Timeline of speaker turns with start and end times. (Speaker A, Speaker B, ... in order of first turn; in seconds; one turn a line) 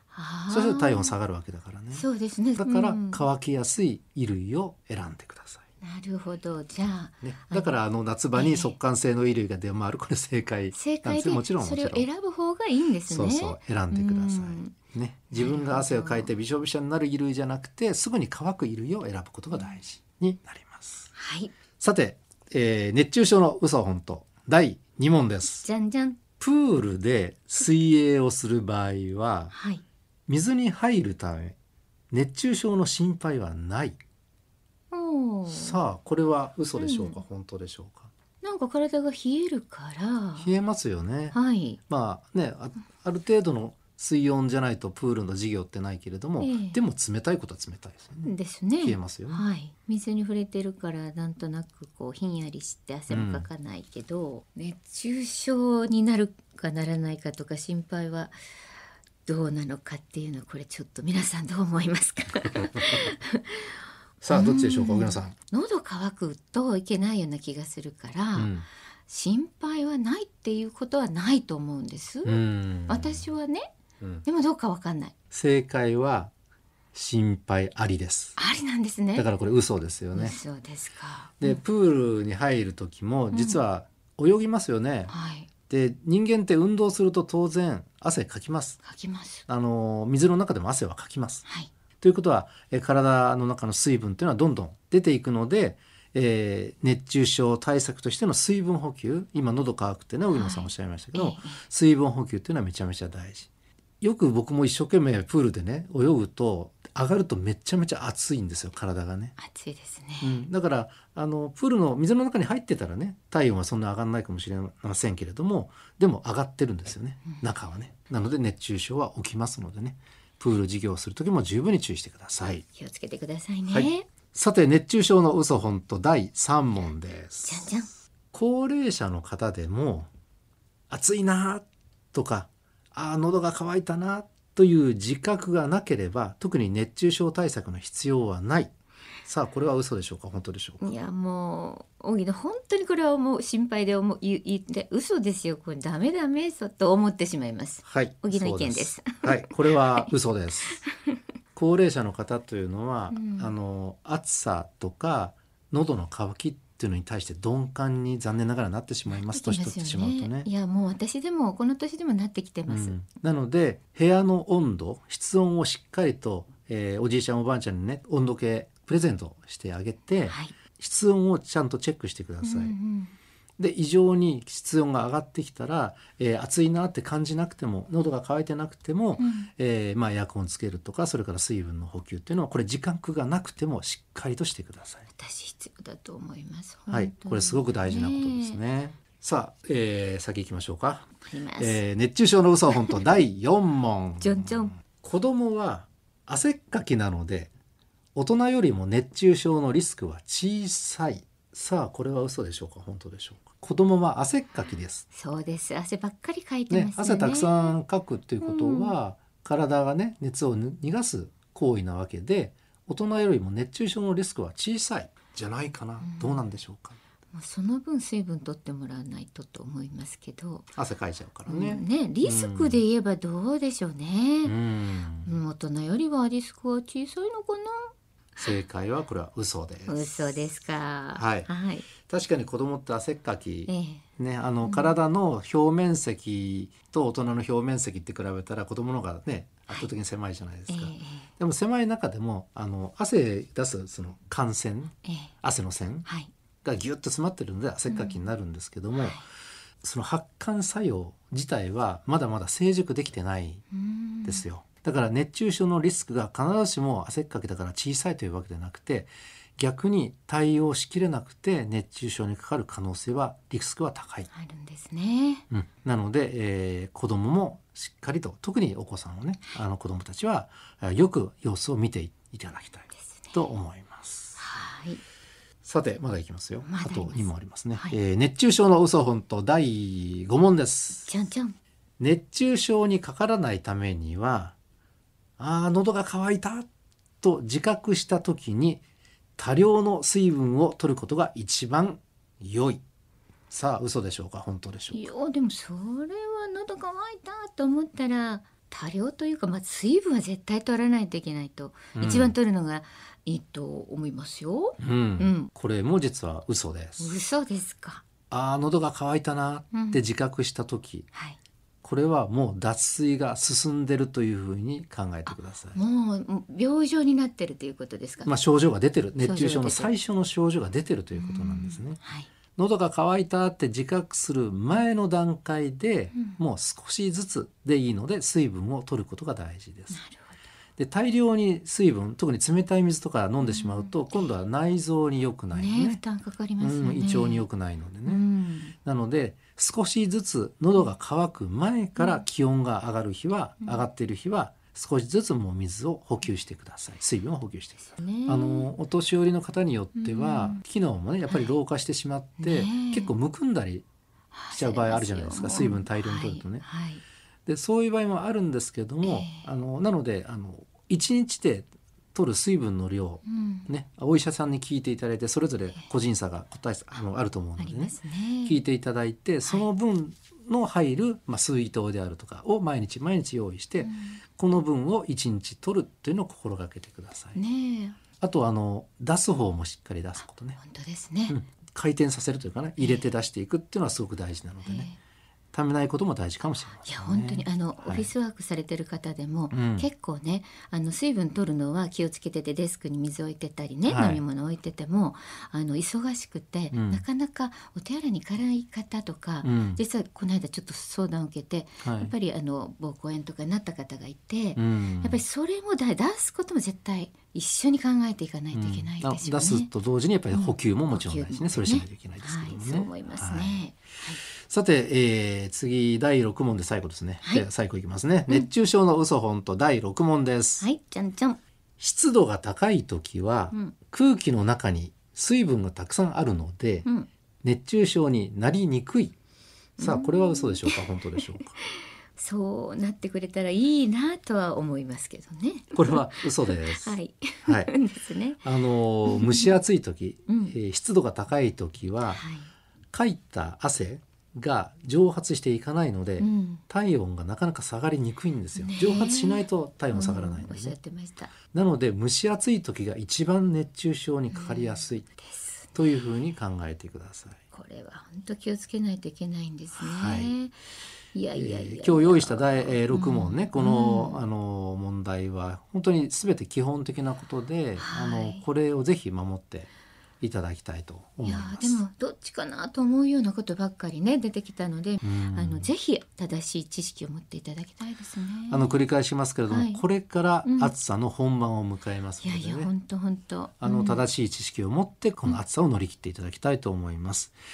Speaker A: 0.1-1.1
Speaker B: 0.5-5.6
Speaker A: 1.9-3.2
Speaker A: 5.8-7.8
Speaker B: 7.2-12.1
Speaker A: 8.3-8.8
Speaker A: 10.7-14.8
Speaker B: 13.1-21.1
Speaker A: 15.3-16.3
Speaker A: 19.5-19.8
Speaker A: 21.1-21.5
Speaker B: 21.8-25.7
Speaker A: 25.6-26.2
Speaker B: 26.4-29.5
Speaker A: 29.5-29.8
Speaker B: 30.3-31.6
Speaker B: 32.1-34.0
Speaker A: 34.9-35.8
Speaker B: 35.5-38.1
Speaker A: 36.8-37.2
Speaker A: 38.4-40.5
Speaker B: 40.4-41.4
Speaker A: 41.3-41.8
Speaker B: 41.9-49.4
Speaker A: 46.4-46.8
Speaker A: 48.2-58.4
Speaker B: 53.1-53.5
Speaker A: 59.2-68.5
Speaker B: 64.2-65.3
Speaker B: 68.3-68.7
Speaker A: 69.1-73.7
Speaker B: 72.2-73.3
Speaker A: 74.2-75.2
Speaker B: 75.3-76.3
Speaker B: 76.9-78.4
Speaker A: 78.4-79.3
Speaker B: 79.2-80.4
Speaker A: 80.1-81.6
Speaker B: 81.4-85.1
Speaker A: 83.3-83.6
Speaker A: 85.1-85.5
Speaker B: 85.7-88.8
Speaker A: 88.8-89.5
Speaker B: 89.5-91.5
Speaker B: 92.0-103.5
Speaker A: 100.3-101.6
Speaker B: 104.0-109.4
Speaker A: 109.4-110.4
Speaker B: 110.2-122.6
Speaker A: 122.6-124.1
Speaker B: 123.7-127.7
Speaker A: 127.4-127.9
Speaker B: 128.3-130.1
Speaker B: 130.9-140.8
Speaker A: 140.8-150.1
Speaker B: 147.8-150.8
Speaker A: 150.8-151.2
Speaker B: 151.6-160.5
Speaker A: 153.1-153.5
Speaker A: 159.1-163.0
Speaker B: 162.7-172.7
Speaker A: 170.3-170.6
Speaker A: 172.4-173.1
Speaker B: 173.6-185.1
Speaker A: 179.2-179.5
Speaker A: 185.2-188.6
Speaker B: 186.9-197.5
Speaker A: 191.2-191.8
Speaker A: 194.2-194.8
Speaker B: 198.2-205.1
Speaker A: 205.1-207.8
Speaker B: 206.7-217.0
Speaker A: 208.4-209.0
Speaker A: 216.0-216.4
Speaker A: 217.3-220.7
Speaker B: 220.8-222.8
Speaker A: 221.5-224.6
Speaker B: 224.4-225.4
Speaker A: 225.2-227.9
Speaker B: 228.4-230.4
Speaker A: 229.9-231.9
Speaker B: 231.2-246.1
Speaker A: 233.7-234.1
Speaker A: 234.6-235.0
Speaker A: 240.7-241.3
Speaker A: 245.0-245.3
Speaker A: 246.1-246.3
Speaker B: 246.6-249.2
Speaker A: 247.9-248.2
Speaker A: 249.0-249.2
Speaker B: 249.8-253.6
Speaker A: 253.7-254.5
Speaker B: 254.2-264.3
Speaker A: 264.3-265.5
Speaker B: 265.5-274.4
Speaker A: 272.9-273.4
Speaker A: 274.4-275.0
Speaker B: 275.6-281.1
Speaker A: 276.6-278.0
Speaker A: 281.1-281.6
Speaker B: 282.0-284.6
Speaker B: 285.4-286.7
Speaker B: 287.2-288.8
Speaker B: 289.4-292.8
Speaker B: 293.5-295.1
Speaker A: 294.9-305.5
Speaker B: 302.0-302.4
Speaker B: 304.8-307.2
Speaker A: 307.0-308.1
Speaker B: 308.3-311.1
Speaker A: 309.7-310.0
Speaker B: 311.8-315.8
Speaker A: 315.7-318.3
Speaker B: 318.2-322.0
Speaker A: 319.2-319.9
Speaker A: 321.1-322.3
Speaker B: 322.6-330.0
Speaker A: 326.1-326.4
Speaker A: 329.9-330.4
Speaker B: 330.8-336.0
Speaker A: 333.5-333.9
Speaker A: 335.5-337.5
Speaker B: 336.6-338.2
Speaker A: 338.1-338.8
Speaker B: 338.8-353.9
Speaker A: 342.0-342.2
Speaker A: 347.9-348.7
Speaker A: 350.0-350.6
Speaker A: 351.3-351.6
Speaker A: 352.4-353.1
Speaker A: 354.3-357.0
Speaker B: 354.5-356.6
Speaker B: 357.5-377.4
Speaker A: 359.0-359.5
Speaker A: 363.2-363.7
Speaker A: 367.6-368.6
Speaker A: 373.8-374.2
Speaker A: 377.4-378.0
Speaker B: 378.2-380.6
Speaker A: 380.6-381.4
Speaker B: 381.3-384.9
Speaker A: 382.8-383.1
Speaker A: 384.6-385.0
Speaker B: 385.5-388.1
Speaker A: 386.8-409.7
Speaker B: 389.5-389.9
Speaker B: 393.9-394.2
Speaker B: 396.7-397.0
Speaker B: 399.4-399.8
Speaker B: 401.8-402.1
Speaker B: 404.6-405.2
Speaker B: 408.5-413.7
Speaker A: 410.3-414.2
Speaker B: 414.4-420.7
Speaker A: 420.6-421.4
Speaker B: 421.8-426.9
Speaker B: 427.4-429.1
Speaker A: 429.8-438.4
Speaker B: 429.8-431.6
Speaker B: 435.7-437.7
Speaker B: 438.4-442.2
Speaker A: 439.1-439.5
Speaker A: 440.3-440.6
Speaker A: 442.1-442.5
Speaker B: 442.9-450.8
Speaker A: 446.2-446.6
Speaker A: 448.6-451.3
Speaker B: 451.5-455.1
Speaker A: 454.3-455.7
Speaker B: 455.7-457.4
Speaker A: 457.5-460.6
Speaker B: 459.8-460.3
Speaker A: 461.1-464.2
Speaker B: 461.3-469.7
Speaker A: 467.8-468.4
Speaker B: 470.2-471.8
Speaker A: 471.2-478.7
Speaker B: 475.0-475.7
Speaker B: 478.5-482.7
Speaker A: 479.5-479.8
Speaker A: 480.4-480.7
Speaker A: 482.2-484.0
Speaker B: 483.6-487.3